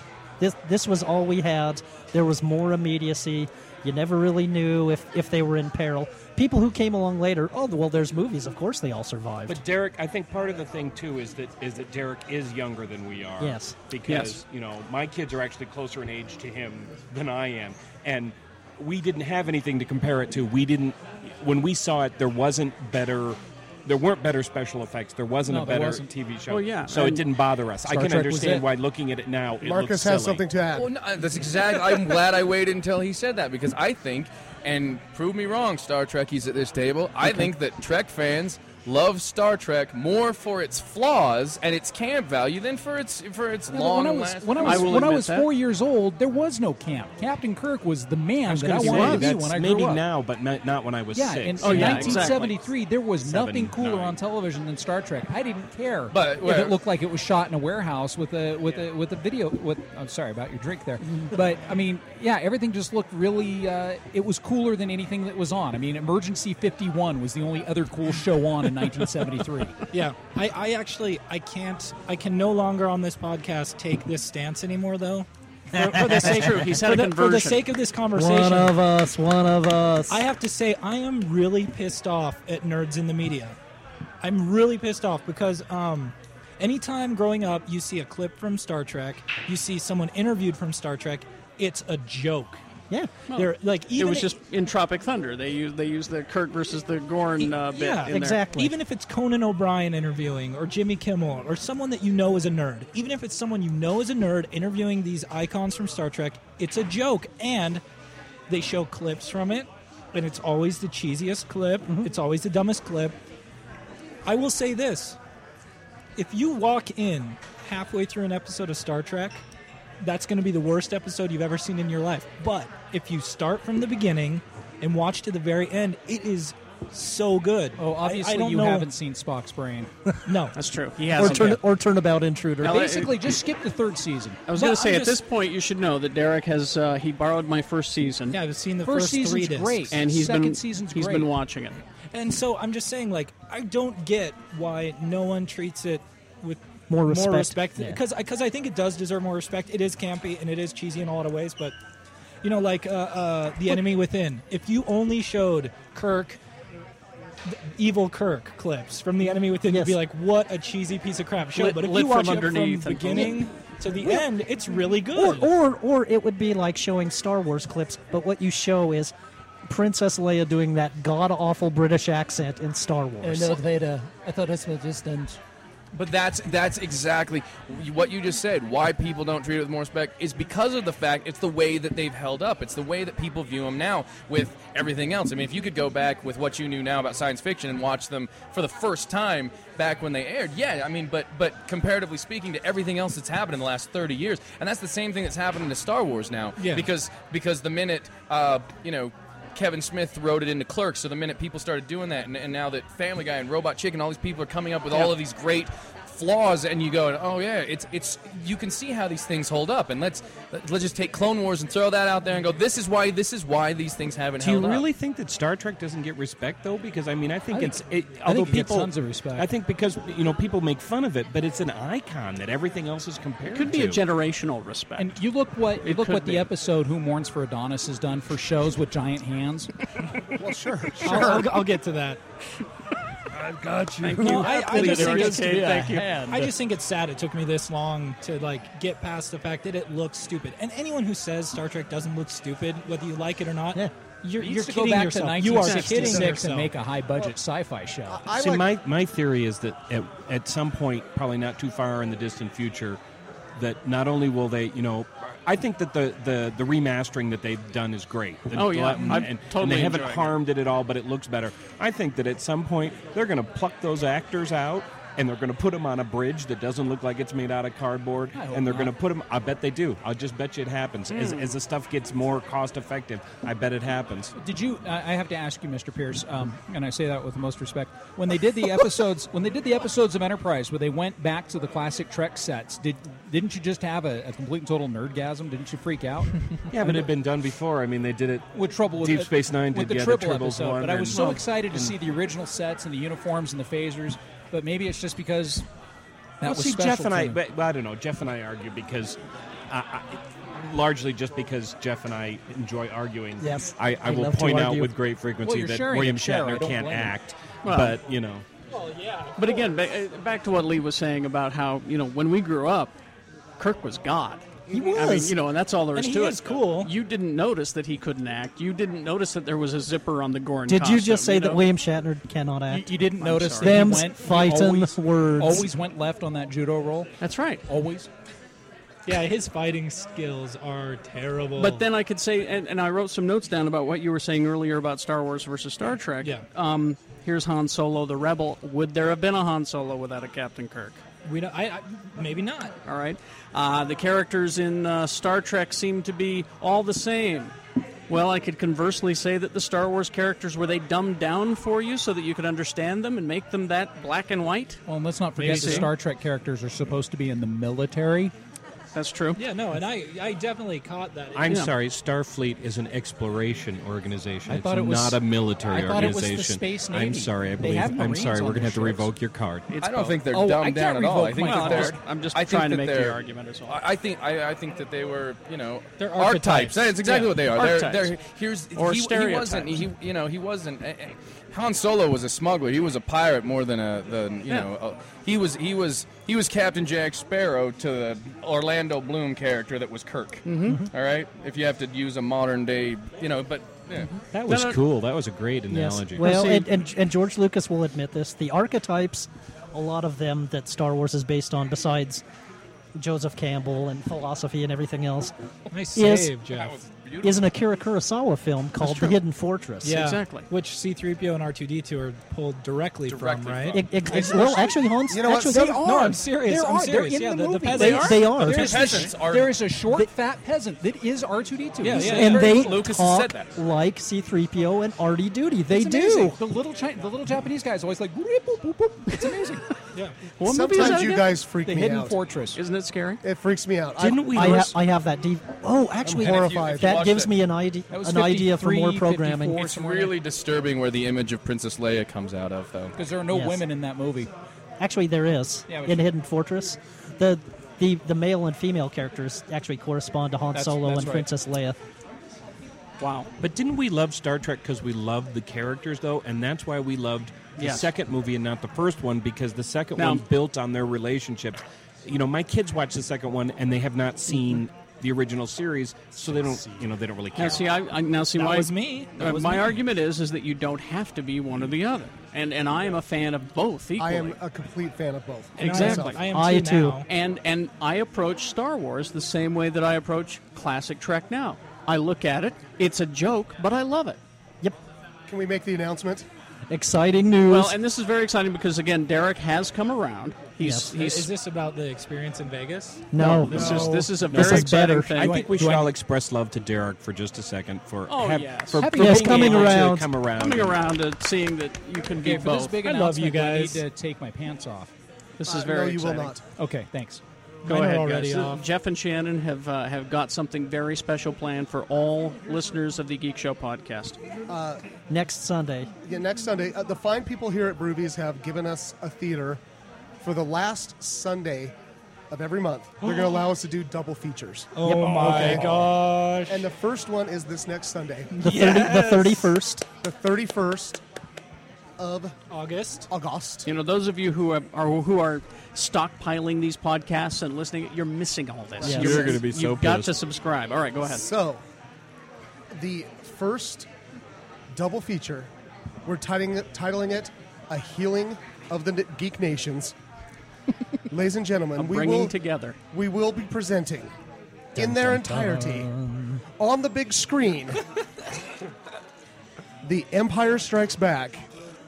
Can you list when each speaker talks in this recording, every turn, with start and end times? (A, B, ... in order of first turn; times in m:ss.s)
0:00.4-0:09.6 A
0:09.5-0:30.5 B
0:13.4-0:13.8 A
0:14.0-0:14.4 C
0:25.5-0:26.1 D
0:26.5-0:27.2 C
0:27.8-0:28.7 D
0:29.6-0:30.9 E
0:30.7-0:45.0 F
0:43.7-0:50.0 D
0:44.6-0:45.5 C
0:48.4-0:52.6 B
0:48.8-0:49.3 C
0:51.1-1:09.8 D
0:51.6-0:52.5 C
0:53.1-0:54.2 B
0:56.1-0:56.7 F
1:09.9-1:18.8 G
1:16.1-1:17.6 C
1:18.1-1:20.2 A
1:20.1-1:23.6 G
1:24.2-1:32.6 G
1:33.3-1:38.4 C
1:33.3-1:34.3 G
1:37.4-1:47.8 G
1:38.1-1:38.7 A
1:48.5-1:53.2 G
1:54.2-1:55.2 G
1:56.2-1:59.4 G
2:00.0-2:08.9 G
2:07.8-2:09.9 D
2:10.2-2:10.6 G
2:10.5-2:11.6 C
2:11.1-2:13.0 A
2:12.6-2:13.2 C
2:12.6-2:14.5 D
2:14.5-2:18.4 C
2:14.5-2:15.2 G
2:18.3-2:19.9 G
2:18.8-2:21.3 D
2:19.9-2:21.8 C
2:22.1-2:31.8 G
2:26.9-2:28.0 A
2:32.4-2:36.4 G
2:37.4-2:45.5 G
2:39.7-2:40.0 A
2:41.5-2:43.4 C
2:45.1-2:49.1 A
2:49.7-2:53.6 A
2:53.2-2:55.4 H
2:55.9-3:34.8 F
3:16.6-3:16.9 G
3:34.4-3:44.0 B
3:37.5-3:39.5 D
3:43.5-3:45.2 C
3:45.0-3:49.7 D
3:45.8-3:46.5 C
3:50.4-3:51.5 E
3:51.0-3:52.2 G
3:53.5-4:06.7 G
3:54.0-3:56.2 C
3:54.7-3:56.5 D
4:04.4-4:08.3 D
4:05.5-4:06.1 C
4:06.1-4:06.3 E
4:08.1-4:08.7 E
4:08.3-4:13.0 B
4:13.6-4:34.3 B
4:18.5-4:20.3 C
4:28.3-4:28.9 D
4:31.1-4:31.5 C
4:34.4-4:47.1 D
4:46.7-4:52.0 B
4:48.5-4:55.6 D
4:51.1-4:51.4 C
4:56.4-4:57.4 D
4:56.4-5:08.4 B
5:03.4-5:04.9 A
5:05.4-5:07.1 D
5:07.6-5:08.0 C
5:08.7-5:09.8 G
5:09.4-5:12.9 C
5:13.6-5:21.6 C
5:14.7-5:15.3 A
5:14.7-5:15.3 G
5:15.9-5:16.9 G
5:20.7-5:25.7 A
5:22.7-5:27.1 D
5:23.2-5:24.0 C
5:27.2-5:27.6 C
5:27.7-5:28.1 D
5:29.0-5:31.8 G
5:31.6-5:41.0 C
5:36.2-5:36.4 G
5:41.2-5:42.7 G
5:42.8-5:47.5 C
5:48.1-5:54.8 C
5:54.9-5:58.3 D
5:55.4-5:55.9 C
5:55.4-5:55.9 G
5:58.9-5:59.4 C
5:59.4-6:01.6 G
6:01.4-6:09.7 B
6:04.5-6:09.1 D
6:09.7-6:10.2 C
6:09.8-6:34.1 F
6:10.3-6:12.0 D
6:11.4-6:13.8 C
6:16.0-6:16.9 G
6:17.0-6:18.1 C
6:18.7-6:19.8 C
6:30.4-6:30.8 C
6:34.3-6:34.7 G
6:34.4-6:34.8 C
6:34.4-6:36.4 B
6:35.7-6:42.2 A
6:36.2-6:36.7 C
6:42.9-6:45.3 A
6:45.7-6:46.8 G
6:45.9-6:46.4 A
6:46.5-6:47.5 F
6:47.2-6:50.0 A
6:48.8-6:49.1 C
6:49.8-6:54.7 G
6:49.8-6:50.5 C
6:53.1-6:54.4 F
6:53.7-6:56.1 A
6:55.1-6:55.8 E
6:55.5-6:58.6 G
6:56.0-7:02.8 D
6:57.7-6:59.1 A
6:58.4-6:59.5 F
7:01.8-7:02.5 G
7:02.0-7:06.4 A
7:02.1-7:03.5 F
7:05.7-7:09.7 D
7:10.4-7:11.3 C
7:10.4-7:12.2 E
7:10.7-7:12.6 D
7:12.5-7:13.2 C
7:13.2-7:14.7 E
7:14.0-7:14.7 B
7:14.3-7:19.7 A
7:16.0-7:17.1 E
7:16.1-7:17.3 F
7:17.9-7:20.1 D
7:19.6-7:23.0 F
7:23.0-7:24.3 D
7:23.3-7:23.6 A
7:24.8-7:31.8 A
7:25.7-7:26.0 D
7:30.5-7:31.3 D
7:33.0-7:33.3 C
7:33.4-7:47.8 B
7:37.6-7:37.9 C
7:40.0-7:40.2 C
7:47.3-7:54.4 C
7:48.3-7:49.8 G
7:54.0-7:56.2 E
7:55.6-7:56.2 C
7:55.6-7:57.0 G
7:56.3-7:57.0 A
7:57.0-8:04.2 C
8:05.3-8:06.3 E
8:06.7-8:07.8 A
8:07.4-8:11.3 C
8:10.6-8:10.9 A
8:10.9-8:14.1 G
8:13.1-8:15.1 A
8:13.2-8:15.4 C
8:13.5-8:14.0 E
8:14.3-8:20.8 B
8:15.2-8:15.9 D
8:18.1-8:18.9 C
8:18.8-8:19.8 D
8:18.9-8:20.1 A
8:20.4-8:22.8 C
8:22.2-8:24.9 D
8:22.8-8:23.8 G
8:25.4-8:26.4 C
8:25.4-8:26.4 E
8:26.6-8:27.2 D
8:27.6-8:28.6 G
8:27.6-8:34.2 C
8:34.5-8:34.8 E
8:35.1-8:35.9 A
8:36.0-8:39.6 E
8:40.2-8:41.7 E
8:42.3-8:45.8 E
8:43.0-8:43.4 G
8:44.8-8:46.7 G
8:44.8-8:45.8 A
8:46.5-8:48.3 E
8:48.4-8:49.5 G
8:48.4-8:49.8 A
8:50.0-8:51.0 E
8:52.0-8:52.4 E
8:52.5-8:53.1 G
8:53.1-8:53.7 E
8:53.6-9:01.2 C
8:58.8-8:59.3 E
8:58.8-8:59.4 A
8:58.9-9:00.2 B
9:01.0-9:01.6 E
9:02.7-9:03.9 E
9:04.7-9:05.5 E
9:06.0-9:09.9 E
9:11.1-9:12.3 E
9:11.8-9:12.8 C
9:12.9-9:14.1 E
9:14.7-9:15.9 E
9:14.8-9:16.4 A
9:16.6-9:17.8 E
9:19.8-9:21.4 E